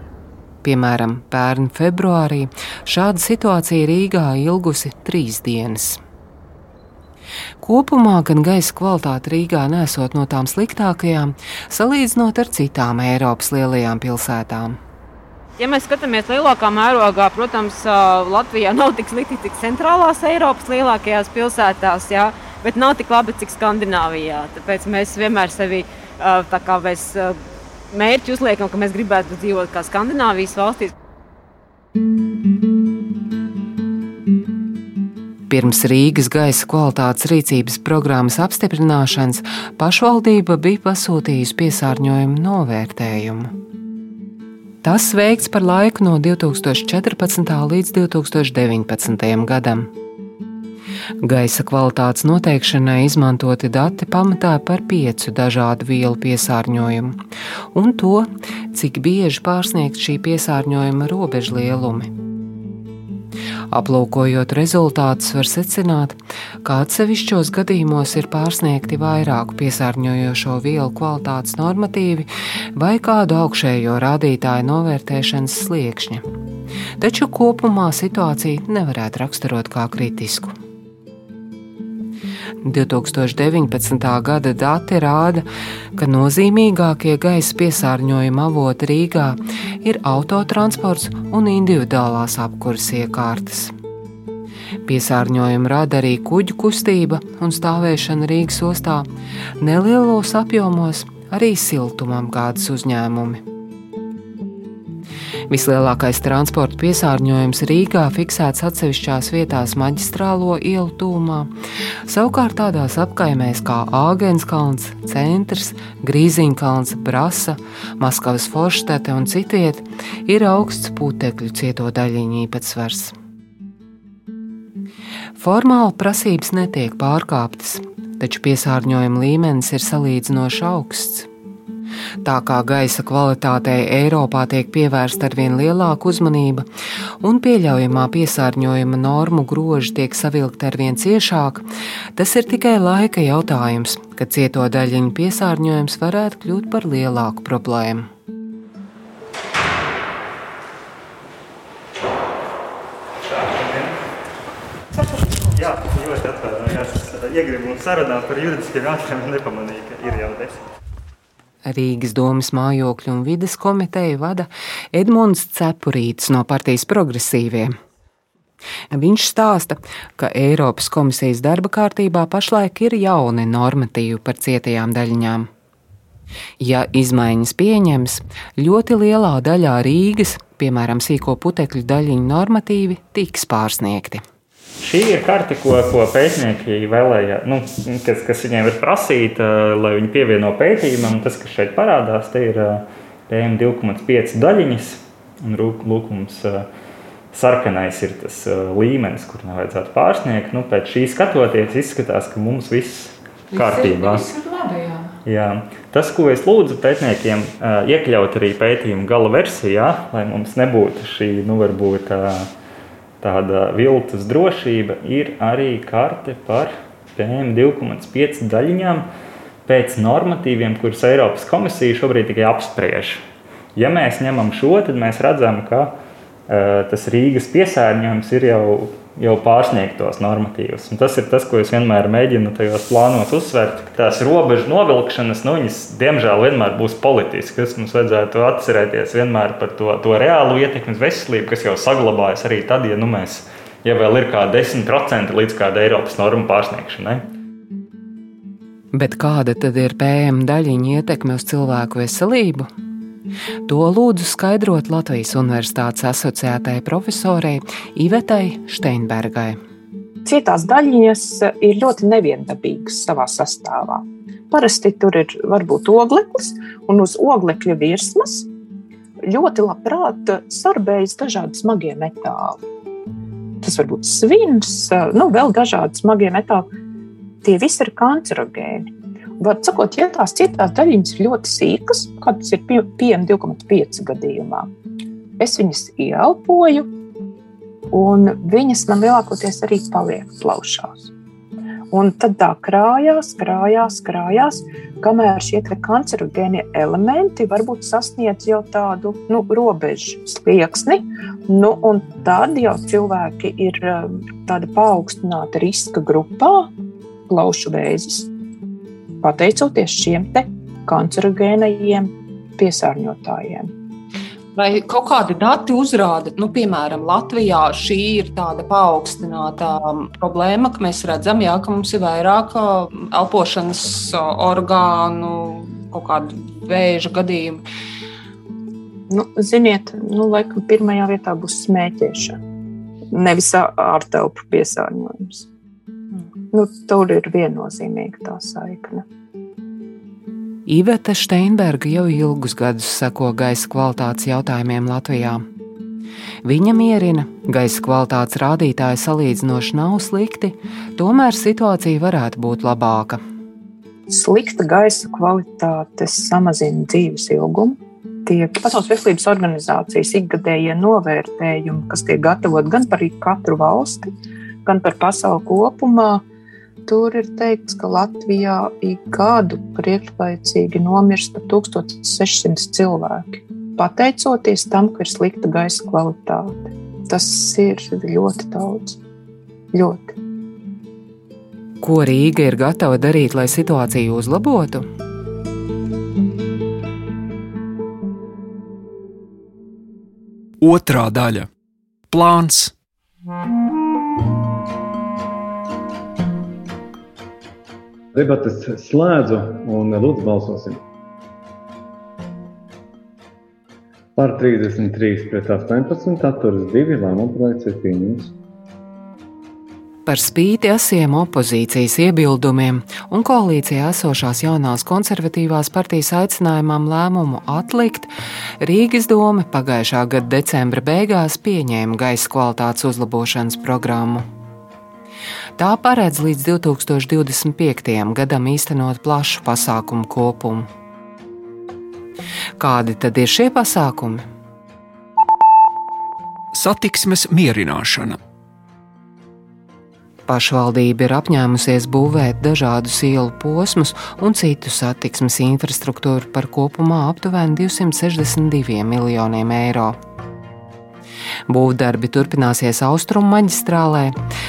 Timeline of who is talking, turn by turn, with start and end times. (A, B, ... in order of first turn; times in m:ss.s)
0:00.6-0:06.0 A
0:07.6-0:14.8 A
0:15.6-0:27.4 B
0:27.9-0:30.9 B
0:35.5-0:43.5 A
0:44.8-0:49.9 A
0:51.2-0:57.2 A
0:57.7-1:02.1 A
1:03.7-1:16.2 A
1:17.0-1:20.5 A
1:22.6-1:25.4 A
1:26.0-1:33.7 A
1:34.9-1:39.1 A
1:39.6-1:43.4 A
1:45.5-1:51.5 A
1:52.1-2:03.1 A
2:05.4-2:11.3 A
2:12.2-2:16.7 A
2:17.2-2:28.1 A
2:33.3-2:34.0 C
2:34.9-2:40.6 C
2:41.7-2:47.8 A
2:48.9-2:55.5 A
2:56.6-3:04.2 A
3:04.8-3:16.7 C
3:17.3-3:24.3 C
3:23.5-3:25.1 D
3:25.2-3:32.5 C
3:33.2-3:39.1 C
3:39.7-3:43.2 C
3:43.8-3:46.0 C
3:46.5-4:07.2 C
4:08.9-4:12.7 A
4:13.7-4:19.6 A
4:20.2-4:28.5 E
4:29.2-4:32.6 E
4:33.6-4:36.7 E
4:37.4-4:44.7 E
4:45.4-4:46.9 E
4:47.9-4:51.1 E
4:51.9-5:06.7 E
5:07.3-5:08.3 E
5:09.2-5:13.7 E
5:14.6-5:27.6 D
5:29.1-5:32.4 E
5:33.1-5:35.5 E
5:36.5-5:39.0 E
5:40.7-5:45.4 A
5:46.4-5:53.2 A
5:54.1-6:04.1 E
6:04.6-6:06.2 E
6:06.9-6:19.0 E
6:19.7-6:20.2 E
6:21.8-6:24.8 A
6:30.6-6:31.5 F
6:32.1-6:32.7 F
6:38.1-6:40.8 G
6:44.2-6:48.3 G
6:50.1-6:58.1 A
6:58.6-7:04.2 A
7:05.6-7:10.7 A
7:12.6-7:14.2 A
7:16.5-7:18.2 F
7:20.3-7:30.0 A
7:31.5-7:34.2 A